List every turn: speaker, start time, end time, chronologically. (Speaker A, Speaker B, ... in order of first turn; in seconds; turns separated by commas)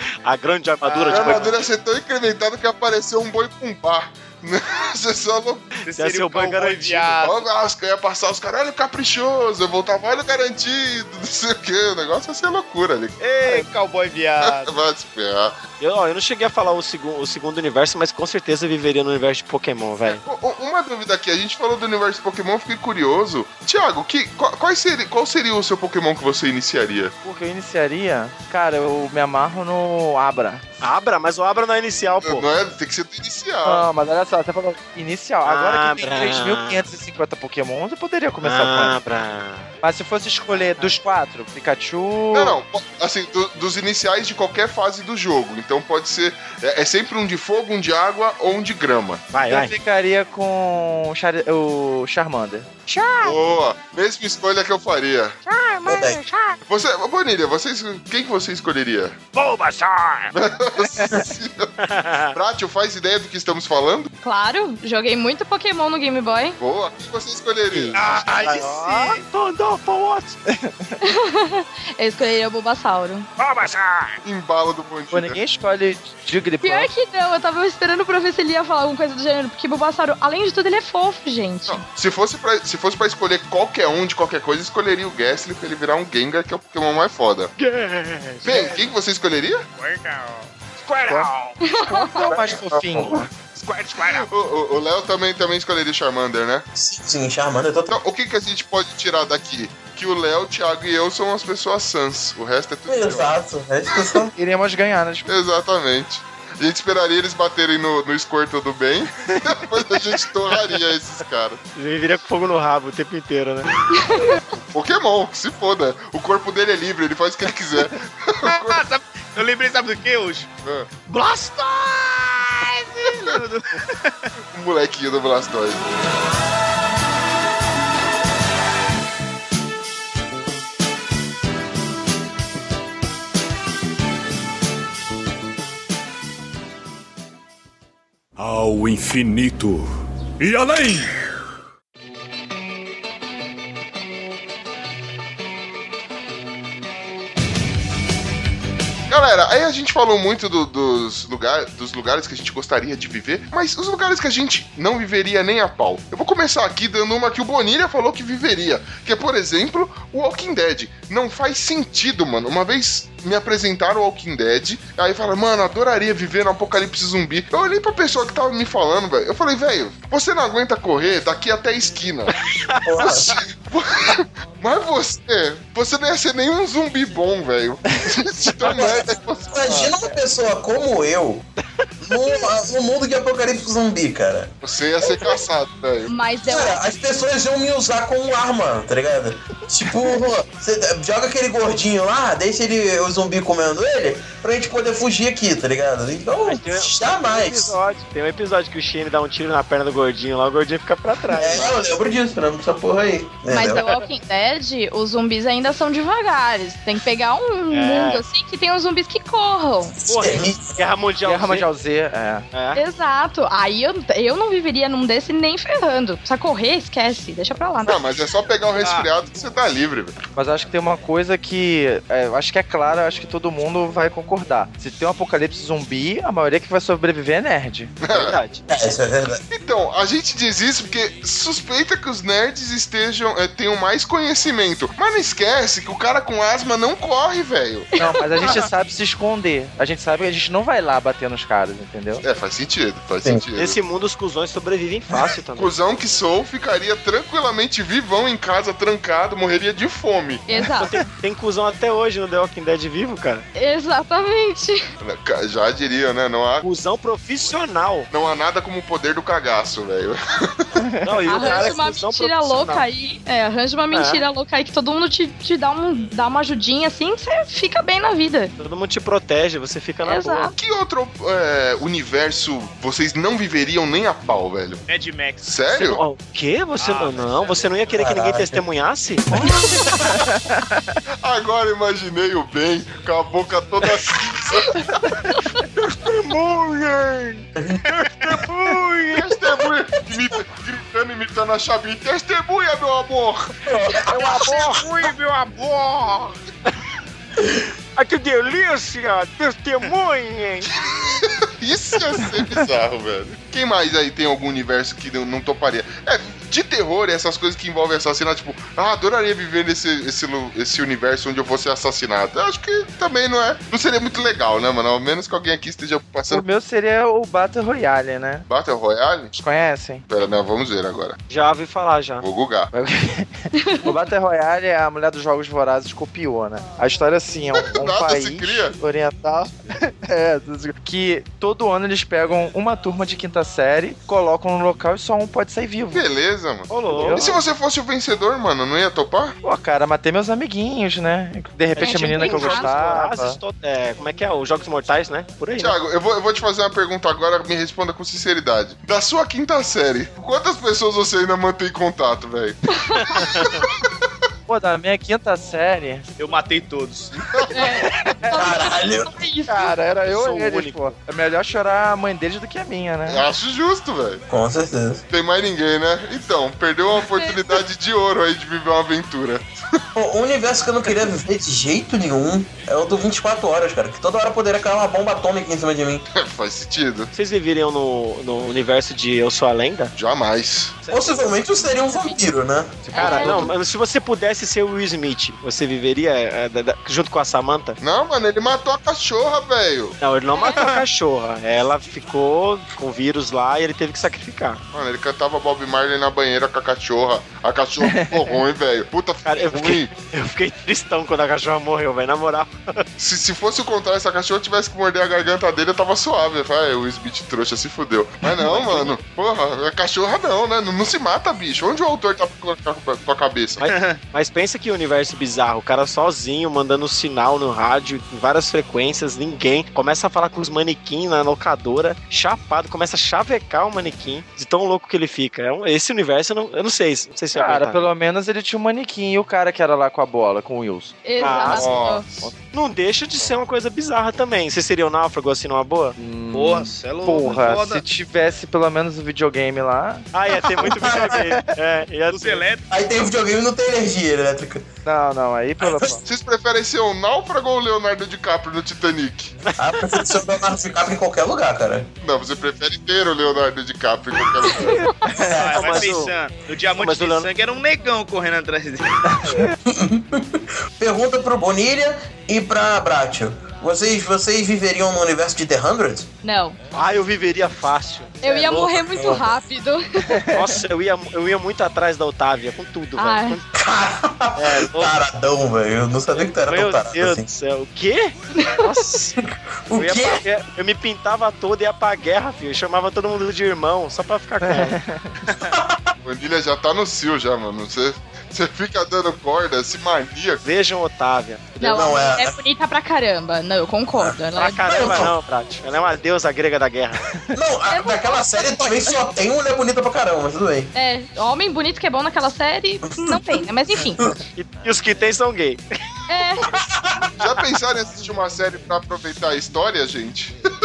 Speaker A: 0.2-1.5, Speaker B: 0.9-1.6, Speaker C: 1.1-5.7, Speaker B: 5.8-7.4, Speaker A: 5.9-7.3, Speaker C: 7.1-13.7, Speaker B: 13.2-14.7, Speaker C: 14.4-15.6, Speaker A: 15.8-20.2, Speaker C: 20.1-27.1, Speaker D: 27.2-30.6, Speaker A: 30.8-32.5, Speaker C: 32.2-33.9, Speaker D: 33.6-39.0, Speaker A: 35.5-36.8, Speaker A: 38.4-39.7, Speaker D: 39.8-42.6, Speaker C: 42.3-49.2, Speaker A: 49.3-49.7, Speaker D: 49.5-52.7, Speaker E: 52.9-53.4, Speaker C: 53.2-55.4, Speaker E: 55.5-56.6, Speaker F: 55.9-56.2, Speaker C: 56.7-59.2, Speaker B: 59.4-59.9, Speaker C: 60.3-61.7, Speaker A: 61.8-62.4, Speaker C: 62.3-64.1, Speaker E: 64.2-66.6, Speaker C: 66.6-68.2, Speaker A: 67.7-68.0, Speaker B: 67.9-69.3, Speaker D: 68.4-69.2, Speaker A: 69.3-70.3, Speaker D: 70.5-71.0, Speaker E: 71.0-73.3, Speaker C: 74.2-75.4, Speaker D: 75.1-76.9, Speaker E: 76.6-81.8, Speaker C: 81.7-87.5, Speaker A: 87.6-88.8, Speaker C: 88.5-89.7, Speaker B: 89.8-90.5, Speaker E: 91.6-92.3, Speaker D: 91.8-93.3, Speaker C: 92.8-93.1, Speaker C: 94.0-96.7, Speaker F: 96.8-98.0, Speaker C: 97.9-103.4, Speaker F: 102.9-104.3, Speaker D: 104.4-105.3, Speaker C: 105.3-111.6, Speaker A: 111.8-113.7, Speaker E: 114.0-114.4, Speaker C: 114.5-118.8, Speaker B: 118.5-120.5, Speaker C: 120.6-120.9, Speaker B: 121.1-124.3, Speaker C: 124.5-125.8, Speaker G: 138.4-139.9, Speaker G: 140.4-141.2, Speaker C: 149.1-172.3, Speaker A: 172.5-173.3, Speaker F: 172.8-173.4, Speaker C: 173.2-179.9, Speaker F: 178.7-181.4, Speaker F: 182.0-184.5, Speaker C: 184.6-186.1, Speaker E: 186.1-186.8, Speaker F: 186.4-197.8, Speaker A: 196.4-201.8, Speaker F: 201.3-203.9, Speaker E: 203.5-210.0, Speaker A: 203.7-204.0, Speaker A: 207.7-208.2, Speaker F: 210.0-210.8, Speaker A: 210.1-211.7, Speaker D: 211.2-212.4, Speaker A: 212.5-212.8, Speaker E: 212.8-218.0, Speaker C: 217.8-220.2, Speaker B: 218.8-219.1, Speaker D: 220.4-227.9, Speaker C: 228.0-228.4, Speaker A: 228.1-228.6, Speaker F: 228.7-229.4, Speaker C: 229.5-237.9, Speaker E: 238.0-238.5, Speaker D: 238.0-242.2, Speaker C: 242.2-243.8, Speaker A: 243.6-245.7, Speaker C: 245.6-250.5, Speaker E: 250.5-251.0, Speaker A: 250.8-253.5, Speaker E: 253.6-254.8, Speaker C: 255.0-256.7, Speaker A: 256.6-258.1, Speaker C: 258.1-260.8, Speaker D: 260.8-261.1, Speaker A: 261.0-262.9, Speaker E: 261.3-268.5, Speaker A: 263.9-264.2, Speaker A: 268.6-270.5, Speaker E: 270.0-270.5, Speaker C: 270.6-274.8, Speaker B: 274.9-275.5, Speaker C: 275.4-276.0, Speaker A: 275.7-279.3, Speaker B: 276.8-278.0, Speaker F: 277.9-278.6, Speaker D: 279.4-281.0, Speaker C: 281.2-285.0, Speaker C: 286.2-287.4, Speaker F: 287.6-287.8, Speaker C: 288.3-293.5, Speaker A: 288.7-289.0, Speaker F: 293.7-294.7, Speaker A: 294.1-294.9, Speaker C: 294.2-294.8, Speaker B: 295.8-296.3, Speaker F: 297.4-297.7, Speaker A: 298.0-300.7, Speaker C: 300.7-316.4, Speaker D: 316.3-318.5, Speaker C: 318.5-319.3, Speaker D: 319.3-320.0, Speaker C: 320.1-321.2, Speaker A: 321.3-322.2, Speaker C: 322.2-322.7, Speaker D: 322.7-336.1, Speaker E: 323.6-324.0, Speaker C: 327.6-328.8, Speaker C: 335.9-339.4, Speaker A: 336.7-337.4, Speaker D: 337.0-337.3, Speaker D: 339.4-343.4, Speaker A: 341.8-345.8, Speaker E: 341.8-342.9, Speaker C: 345.6-352.6, Speaker A: 353.0-353.6, Speaker D: 354.5-356.1, Speaker B: 356.2-357.3, Speaker C: 357.3-357.8, Speaker E: 357.5-359.7, Speaker F: 358.3-359.1, Speaker D: 359.5-363.2, Speaker A: 360.1-360.9, Speaker C: 363.1-364.2, Speaker F: 364.3-365.0, Speaker C: 365.1-369.5, Speaker E: 367.0-367.6, Speaker F: 369.9-376.1, Speaker C: 376.1-377.1, Speaker A: 377.1-379.9, Speaker C: 380.0-380.8, Speaker F: 380.9-383.5, Speaker E: 381.6-382.1, Speaker E: 382.9-383.5, Speaker A: 382.9-387.8, Speaker C: 387.8-390.0, Speaker A: 390.0-394.6, Speaker E: 390.3-390.7, Speaker C: 394.7-399.9, Speaker D: 397.8-398.4, Speaker A: 399.2-402.9, Speaker C: 403.0-413.6, Speaker A: 408.4-409.0, Speaker A: 413.6-427.9, Speaker B: 413.7-414.0, Speaker D: 427.3-431.6, Speaker E: 431.1-432.1, Speaker A: 431.2-431.8, Speaker C: 431.4-432.3, Speaker A: 432.5-436.0, Speaker D: 436.0-440.1, Speaker B: 436.3-437.8, Speaker A: 440.1-442.4, Speaker F: 440.7-441.1, Speaker B: 442.1-442.7, Speaker F: 442.7-444.6, Speaker D: 444.9-446.0, Speaker F: 445.6-445.9, Speaker C: 446.1-449.3, Speaker A: 449.5-450.2, Speaker F: 449.6-451.9, Speaker C: 452.0-454.9, Speaker E: 454.7-455.1, Speaker F: 455.2-455.9, Speaker B: 455.2-459.1, Speaker A: 455.3-456.1, Speaker A: 456.7-457.3, Speaker F: 459.6-466.1, Speaker E: 466.2-466.6, Speaker A: 466.7-469.3, Speaker E: 468.2-470.2, Speaker D: 470.1-470.5, Speaker A: 470.3-473.4, Speaker E: 473.0-473.4, Speaker F: 473.5-477.3, Speaker A: 474.4-475.0, Speaker A: 476.1-479.1, Speaker E: 478.3-478.9, Speaker F: 479.2-480.2, Speaker A: 479.7-484.8, Speaker D: 484.4-485.2, Speaker F: 485.4-485.9, Speaker C: 486.0-490.4, Speaker A: 490.4-491.8, Speaker F: 491.6-492.4, Speaker E: 491.6-494.8, Speaker A: 494.3-497.1, Speaker F: 494.7-495.1, Speaker F: 497.3-500.7, Speaker E: 497.7-499.0, Speaker E: 500.8-504.0, Speaker F: 502.9-503.4, Speaker A: 504.4-505.6, Speaker E: 506.1-506.4, Speaker F: 506.5-507.1, Speaker C: 507.2-510.4